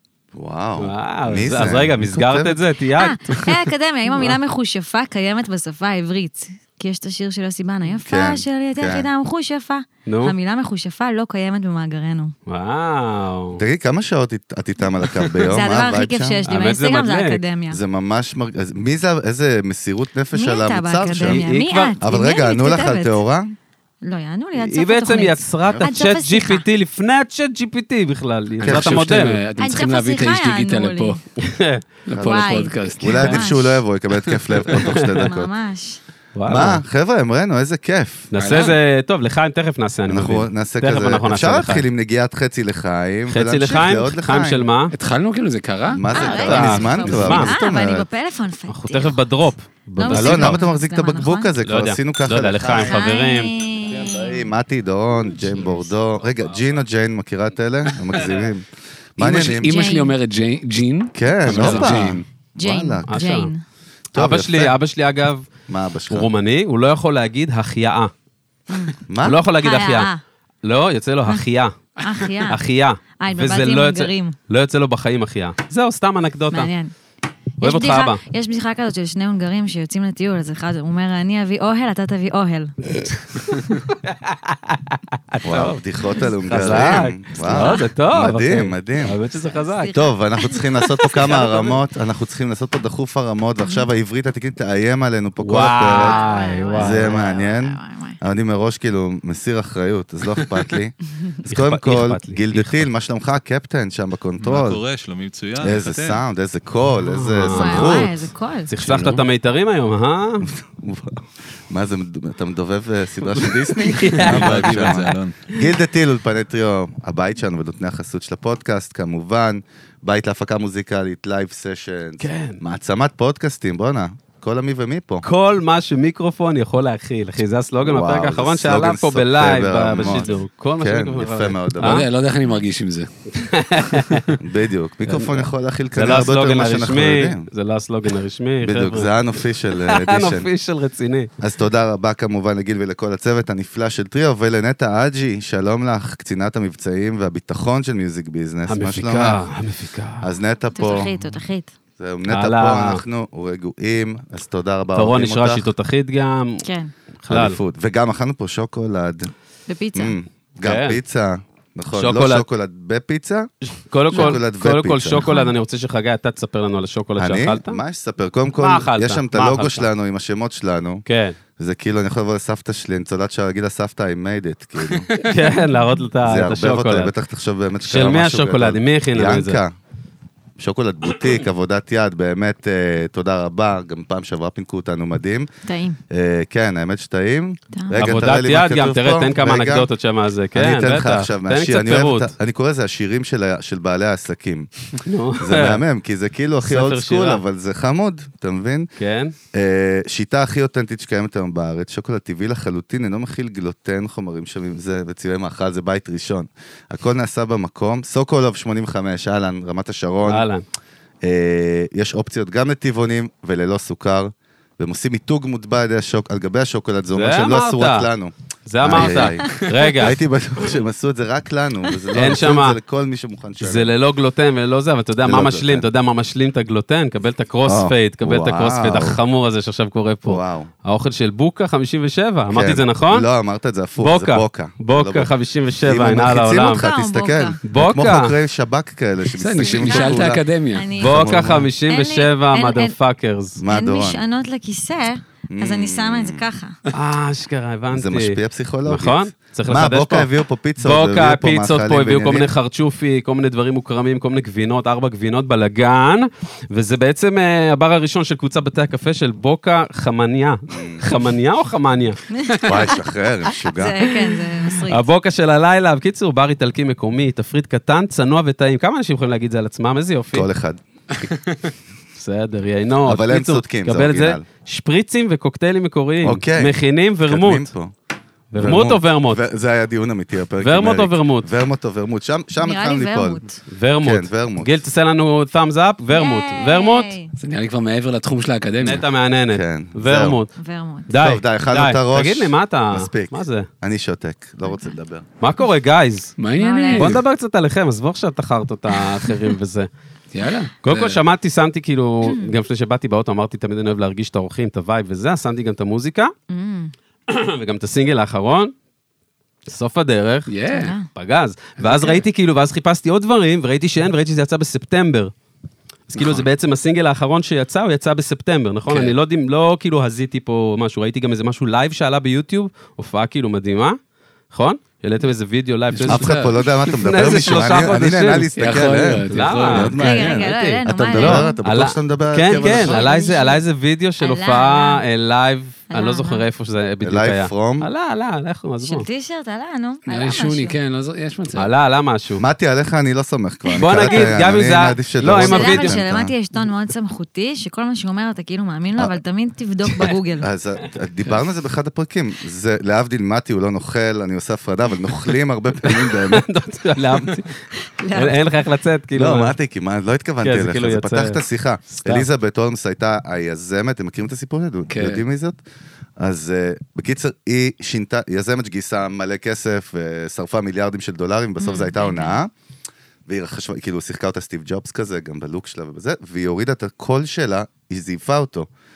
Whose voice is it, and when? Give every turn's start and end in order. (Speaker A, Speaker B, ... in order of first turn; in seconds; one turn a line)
Speaker A: 0.3-2.6
Speaker B: 0.8-3.5
Speaker C: 3.0-12.3
Speaker A: 8.1-9.1
Speaker B: 10.1-10.3
Speaker B: 12.5-13.6
Speaker A: 13.6-16.7
Speaker C: 15.4-17.8
Speaker B: 16.5-17.4
Speaker A: 17.7-21.4
Speaker C: 20.3-23.2
Speaker B: 21.2-21.9
Speaker A: 22.0-23.5
Speaker C: 24.1-26.6
Speaker B: 24.6-29.4
Speaker A: 25.6-25.9
Speaker D: 28.6-31.2
Speaker A: 28.6-29.0
Speaker C: 29.6-31.2
Speaker B: 31.4-31.8
Speaker D: 32.1-33.6
Speaker A: 32.1-32.4
Speaker C: 32.2-33.6
Speaker A: 33.0-35.5
Speaker D: 34.2-34.9
Speaker B: 34.7-35.3
Speaker C: 35.2-36.0
Speaker B: 36.4-36.8
Speaker A: 36.5-38.3
Speaker B: 38.3-41.9
Speaker D: 38.4-38.8
Speaker A: 40.1-44.7
Speaker B: 43.3-44.9
Speaker D: 44.9-46.0
Speaker A: 45.9-48.1
Speaker C: 46.1-49.3
Speaker B: 46.3-47.6
Speaker B: 48.7-50.6
Speaker C: 50.0-51.5
Speaker A: 50.1-53.0
Speaker B: 51.6-53.5
Speaker C: 52.7-54.5
Speaker A: 53.8-59.7
Speaker C: 55.4-55.9
Speaker D: 59.2-62.2
Speaker C: 59.6-60.2
Speaker A: 61.1-63.1
Speaker B: 61.5-62.0
Speaker C: 62.6-63.6
Speaker B: 63.1-63.5
Speaker A: 64.2-64.8
Speaker B: 64.2-65.5
Speaker A: 65.7-66.3
Speaker B: 66.1-68.1
Speaker C: 68.7-69.0
Speaker A: 69.1-69.4
Speaker B: 69.2-70.1
Speaker C: 69.6-70.2
Speaker B: 70.6-71.7
Speaker C: 72.0-72.6
Speaker B: 72.5-76.7
Speaker C: 73.2-74.4
Speaker C: 76.5-76.9
Speaker C: 77.6-82.7
Speaker B: 77.6-78.2
Speaker B: 83.1-85.8
Speaker A: 85.4-89.2
Speaker C: 86.1-87.8
Speaker B: 86.4-89.9
Speaker C: 89.4-90.7
Speaker A: 89.9-96.2
Speaker B: 91.0-91.8
Speaker C: 93.6-93.9
Speaker B: 95.4-97.2
Speaker C: 95.9-98.2
Speaker A: 96.7-104.8
Speaker B: 101.5-102.9
Speaker E: 104.4-106.2
Speaker A: 105.6-108.3
Speaker B: 107.0-108.0
Speaker C: 107.5-108.7
Speaker B: 108.7-110.5
Speaker D: 108.8-109.2
Speaker A: 110.4-125.3
Speaker B: 113.3-115.7
Speaker E: 114.2-115.4
Speaker B: 122.2-122.6
Speaker B: 125.2-132.1
Speaker A: 127.8-132.0
Speaker D: 131.8-134.3
Speaker B: 133.4-134.2
Speaker A: 134.4-137.5
Speaker B: 135.1-139.1
Speaker A: 138.6-140.5
Speaker B: 139.8-141.3
Speaker A: 141.4-149.4
Speaker B: 148.7-150.3
Speaker A: 150.2-151.1
Speaker C: 150.7-151.7
Speaker A: 152.0-155.7
Speaker B: 152.3-153.0
Speaker B: 154.9-156.7
Speaker C: 156.6-156.9
Speaker B: 157.2-157.6
Speaker A: 157.3-159.3
Speaker C: 159.7-160.1
Speaker A: 159.9-163.5
Speaker B: 160.6-161.0
Speaker B: 161.9-162.4
Speaker B: 163.6-167.8
Speaker A: 164.1-165.3
Speaker C: 164.1-164.4
Speaker C: 165.2-165.5
Speaker A: 167.2-171.1
Speaker B: 168.6-169.9
Speaker B: 171.1-171.4
Speaker A: 171.6-175.1
Speaker B: 175.1-177.1
Speaker C: 175.2-176.0
Speaker A: 176.2-179.7
Speaker B: 177.8-179.6
Speaker A: 180.6-185.5
Speaker C: 185.7-186.0
Speaker A: 186.1-189.9
Speaker C: 187.7-188.0
Speaker B: 188.0-192.3
Speaker A: 190.6-194.7
Speaker B: 195.1-195.8
Speaker A: 195.4-198.9
Speaker B: 196.7-197.4
Speaker B: 199.0-199.3
Speaker A: 199.5-210.5
Speaker B: 210.3-210.6
Speaker A: 211.2-223.9
Speaker B: 217.1-218.1
Speaker B: 218.7-220.2
Speaker D: 219.0-219.6
Speaker B: 222.1-222.8
Speaker B: 223.6-233.3
Speaker A: 225.2-225.9
Speaker A: 227.7-229.2
Speaker A: 230.2-230.7
Speaker A: 232.5-235.3
Speaker B: 234.0-236.8
Speaker A: 235.8-240.4
Speaker C: 236.6-237.6
Speaker B: 237.7-238.3
Speaker D: 239.4-240.9
Speaker C: 239.8-242.9
Speaker A: 241.0-241.7
Speaker B: 241.0-243.6
Speaker A: 243.6-244.2
Speaker C: 243.7-246.8
Speaker A: 245.5-246.5
Speaker B: 246.9-262.2
Speaker A: 247.9-252.5
Speaker A: 260.7-261.1
Speaker C: 262.4-265.0
Speaker A: 262.6-264.2
Speaker B: 264.7-270.5
Speaker A: 270.3-270.8
Speaker D: 271.1-271.7
Speaker B: 272.2-277.7
Speaker A: 273.1-274.4
Speaker A: 276.2-277.9
Speaker B: 278.5-279.4
Speaker A: 278.6-283.4
Speaker B: 280.6-281.5
Speaker C: 282.6-283.6
Speaker B: 283.7-287.2
Speaker A: 284.0-284.8
Speaker C: 286.1-287.3
Speaker D: 287.4-289.0
Speaker B: 288.8-290.5
Speaker A: 289.5-290.4
Speaker C: 290.6-291.1
Speaker B: 291.1-293.7
Speaker A: 291.1-295.3
Speaker C: 294.7-294.9
Speaker B: 295.4-296.3
Speaker D: 296.4-297.2
Speaker C: 296.6-297.2
Speaker B: 296.9-299.9
Speaker D: 300.3-301.2
Speaker B: 300.8-306.3
Speaker C: 302.3-302.5
Speaker C: 306.5-306.9
Speaker B: 307.3-308.7
Speaker B: 309.7-310.5
Speaker D: 310.5-310.9
Speaker C: 310.7-311.1
Speaker B: 311.1-315.3
Speaker D: 311.8-312.2
Speaker B: 316.1-324.0
Speaker D: 316.1-316.5
Speaker D: 318.9-319.1
Speaker B: 324.5-339.1
Speaker D: 325.9-328.0
Speaker A: 326.1-333.1
Speaker D: 328.6-329.9
Speaker C: 330.0-331.6
Speaker C: 332.5-333.6
Speaker C: 334.2-335.0
Speaker C: 335.9-336.4
Speaker A: 337.0-337.9
Speaker C: 338.8-340.8
Speaker D: 340.1-341.7
Speaker B: 341.5-342.5
Speaker A: 342.4-346.3
Speaker C: 343.7-344.3
Speaker B: 343.8-346.0
Speaker C: 345.4-350.5
Speaker A: 349.9-356.5
Speaker B: 355.8-359.5
Speaker C: 357.8-358.4
Speaker A: 359.1-365.6
Speaker B: 360.4-362.3
Speaker D: 364.9-365.2
Speaker A: 366.2-372.5
Speaker C: 371.6-372.4
Speaker A: 373.3-378.7